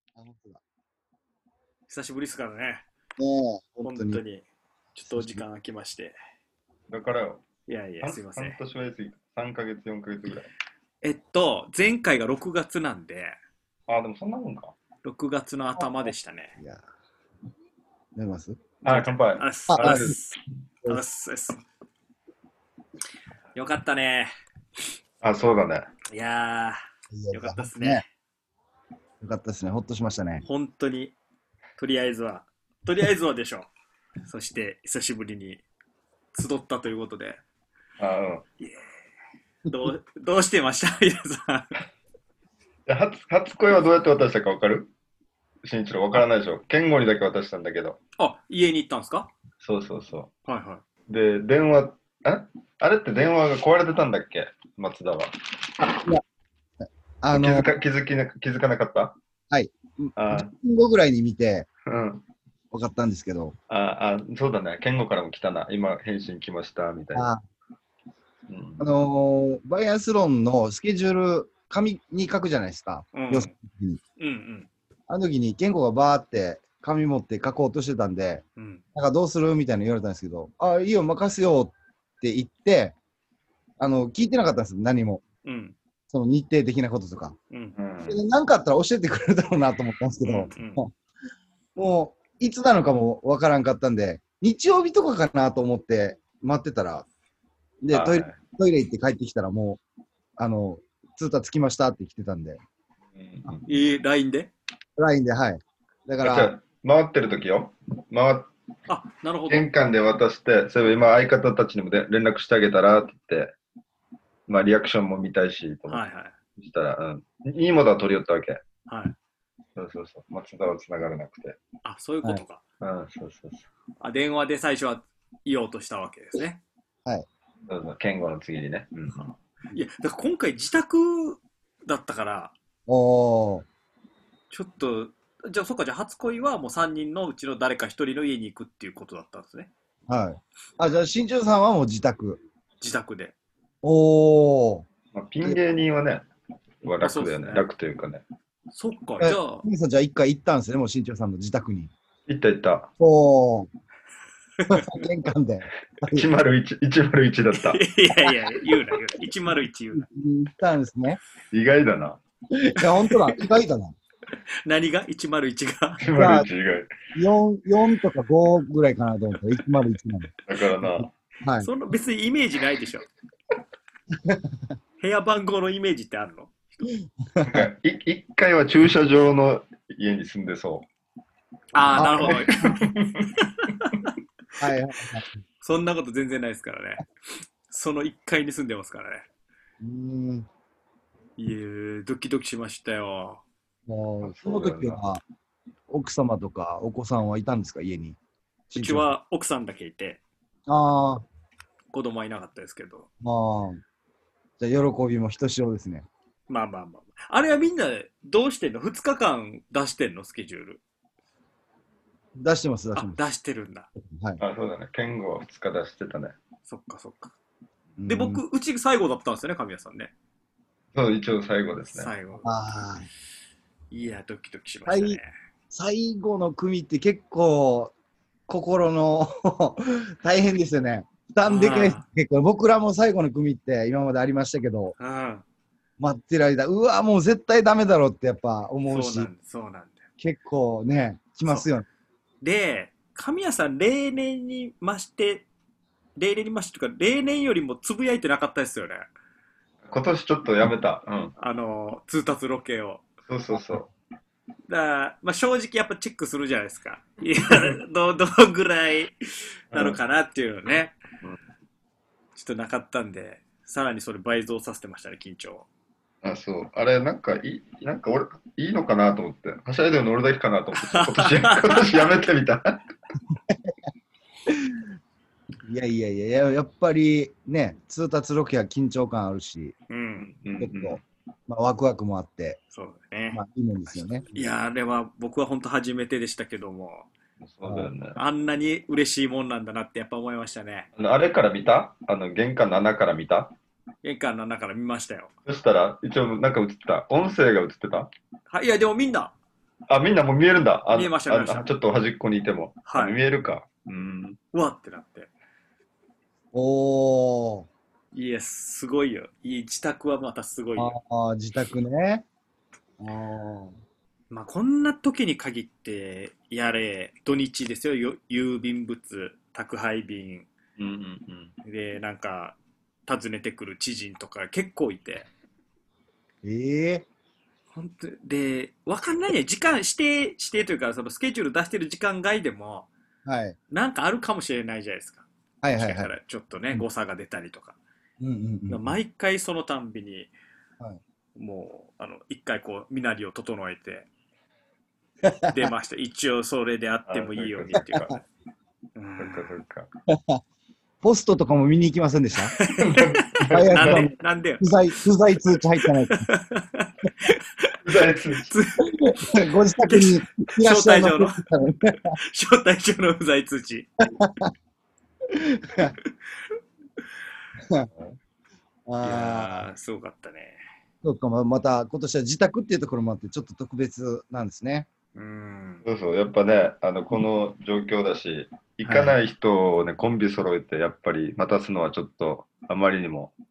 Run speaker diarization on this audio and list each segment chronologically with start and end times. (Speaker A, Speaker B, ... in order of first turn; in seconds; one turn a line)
Speaker A: 0.2-0.6
Speaker B: 1.9-2.8
Speaker A: 3.2-4.2
Speaker B: 3.8-6.1
Speaker A: 5.0-5.4
Speaker C: 6.9-7.4
Speaker B: 7.7-8.6
Speaker C: 8.0-10.5
Speaker B: 11.0-13.3
Speaker C: 13.9-14.8
Speaker B: 15.0-16.6
Speaker A: 16.6-16.8
Speaker A: 18.1-18.6
Speaker C: 18.8-20.2
Speaker B: 18.9-20.4
Speaker A: 19.7-20.1
Speaker B: 20.9-21.6
Speaker B: 23.5-24.3
Speaker C: 25.2-25.9
Speaker B: 26.1-26.8
Speaker A: 27.1-28.0
Speaker B: 27.3-28.0
Speaker A: 29.2-30.4
Speaker B: 30.4-31.1
Speaker B: 31.8-33.7
Speaker B: 34.2-35.6
Speaker B: 36.3-37.4
Speaker C: 38.0-38.4
Speaker B: 39.6-41.8
Speaker C: 42.9-44.9
Speaker C: 45.6-48.0
Speaker B: 48.2-49.3
Speaker C: 49.6-50.3
Speaker B: 50.5-50.8
Speaker C: 51.1-56.0
Speaker A: 55.8-56.2
Speaker A: 57.2-57.7
Speaker C: 57.3-59.2
Speaker A: 59.5-61.7
Speaker C: 60.1-60.5
Speaker C: 61.9-62.2
Speaker A: 62.7-63.5
Speaker C: 63.7-67.3
Speaker A: 67.1-67.4
Speaker C: 68.5-68.8
Speaker A: 68.8-74.0
Speaker B: 73.1-73.5
Speaker B: 74.2-74.7
Speaker A: 75.1-78.4
Speaker B: 78.6-78.8
Speaker A: 78.9-83.0
Speaker A: 83.8-85.2
Speaker B: 85.4-85.8
Speaker A: 86.1-87.4
Speaker C: 87.8-88.2
Speaker A: 88.1-90.9
Speaker B: 90.2-90.8
Speaker A: 91.8-97.0
Speaker A: 97.8-99.8
Speaker C: 97.9-98.4
Speaker A: 100.4-102.6
Speaker C: 103.1-103.7
Speaker B: 103.7-104.5
Speaker A: 105.0-106.5
Speaker C: 106.2-108.5
Speaker B: 108.9-109.7
Speaker C: 109.5-113.5
Speaker C: 114.5-116.0
Speaker B: 115.9-116.3
Speaker C: 116.6-118.6
Speaker B: 118.9-119.1
Speaker C: 119.8-121.6
Speaker B: 121.8-122.6
Speaker C: 122.8-123.7
Speaker B: 124.0-126.6
Speaker C: 127.7-129.3
Speaker B: 129.2-132.5
Speaker A: 132.9-133.7
Speaker B: 134.5-139.7
Speaker A: 140.1-142.4
Speaker B: 142.8-143.3
Speaker A: 143.8-144.8
Speaker C: 145.1-146.2
Speaker C: 146.8-148.2
Speaker B: 147.0-147.6
Speaker B: 148.7-149.7
Speaker A: 149.2-151.9
Speaker C: 152.3-152.9
Speaker A: 153.0-153.7
Speaker B: 154.6-155.0
Speaker A: 154.7-156.2
Speaker C: 156.0-157.8
Speaker B: 157.5-160.1
Speaker A: 159.9-161.2
Speaker C: 161.5-162.2
Speaker A: 162.5-163.9
Speaker B: 164.6-166.0
Speaker C: 166.0-166.9
Speaker A: 166.2-166.5
Speaker A: 167.1-171.7
Speaker C: 170.4-171.1
Speaker B: 171.6-173.1
Speaker A: 174.2-174.6
Speaker B: 175.0-176.9
Speaker A: 177.2-177.7
Speaker C: 177.4-180.9
Speaker B: 181.7-182.7
Speaker C: 181.9-183.3
Speaker A: 181.9-182.8
Speaker B: 183.6-184.0
Speaker A: 184.6-185.4
Speaker B: 185.6-187.0
Speaker B: 187.7-189.3
Speaker A: 189.8-190.5
Speaker B: 191.4-193.4
Speaker A: 193.9-195.2
Speaker C: 194.2-195.0
Speaker A: 195.9-198.2
Speaker A: 198.7-199.1
Speaker B: 198.7-200.2
Speaker A: 200.7-201.2
Speaker B: 201.9-203.1
Speaker A: 203.2-203.8
Speaker A: 204.6-206.1
Speaker B: 206.5-210.8
Speaker A: 212.3-213.2
Speaker B: 212.9-213.9
Speaker A: 214.1-214.4
Speaker C: 214.4-216.3
Speaker B: 216.7-217.3
Speaker A: 218.0-218.4
Speaker B: 218.1-220.1
Speaker C: 220.9-222.1
Speaker B: 221.9-222.5
Speaker A: 222.4-223.1
Speaker B: 223.9-225.3
Speaker A: 224.9-225.2
Speaker A: 225.7-227.9
Speaker A: 228.5-234.9
Speaker B: 231.4-232.0
Speaker B: 235.0-235.4
Speaker A: 236.0-239.3
Speaker B: 238.9-240.0
Speaker A: 240.2-241.8
Speaker B: 242.4-245.4
Speaker B: 246.2-249.1
Speaker C: 249.8-251.3
Speaker B: 251.4-253.0
Speaker C: 253.3-253.9
Speaker B: 254.7-260.9
Speaker C: 259.7-260.0
Speaker B: 262.4-265.6
Speaker C: 266.2-272.8
Speaker B: 270.8-271.8
Speaker A: 273.3-273.7
Speaker A: 274.5-274.8
Speaker A: 275.7-279.7
Speaker B: 279.9-280.3
Speaker C: 280.2-281.0
Speaker A: 280.6-282.6
Speaker B: 282.7-283.4
Speaker A: 283.3-284.2
Speaker B: 284.3-287.1
Speaker C: 287.4-288.2
Speaker A: 287.6-287.9
Speaker B: 288.1-290.9
Speaker C: 291.0-293.5
Speaker B: 294.0-295.3
Speaker C: 295.4-298.1
Speaker B: 298.5-299.3
Speaker C: 299.9-304.4
Speaker B: 300.9-301.7
Speaker B: 302.9-303.2
Speaker B: 304.5-305.3
Speaker A: 306.5-307.7
Speaker B: 308.1-310.9
Speaker A: 310.8-312.2
Speaker A: 313.0-313.8
Speaker B: 314.3-320.5
Speaker C: 320.8-321.5
Speaker B: 321.6-322.6
Speaker B: 323.1-325.3
Speaker A: 326.4-327.0
Speaker B: 327.7-332.9
Speaker A: 333.2-333.6
Speaker B: 333.7-337.8
Speaker A: 335.6-336.1
Speaker A: 338.2-339.0
Speaker B: 338.7-340.3
Speaker B: 341.4-344.1
Speaker A: 345.2-345.7
Speaker B: 345.4-348.1
Speaker C: 347.1-348.2
Speaker B: 348.9-349.5
Speaker C: 349.2-349.9
Speaker A: 350.1-350.4
Speaker A: 351.0-352.5
Speaker B: 352.5-354.7
Speaker C: 352.8-354.1
Speaker A: 353.5-356.3
Speaker B: 355.9-357.8
Speaker C: 357.8-358.5
Speaker B: 358.4-359.3
Speaker A: 358.9-362.1
Speaker B: 359.9-363.9
Speaker A: 364.2-364.5
Speaker A: 365.3-365.9
Speaker A: 367.6-367.9
Speaker A: 368.9-369.7
Speaker B: 369.0-370.6
Speaker A: 371.0-374.9
Speaker B: 375.1-375.8
Speaker C: 375.9-383.3
Speaker A: 378.8-379.2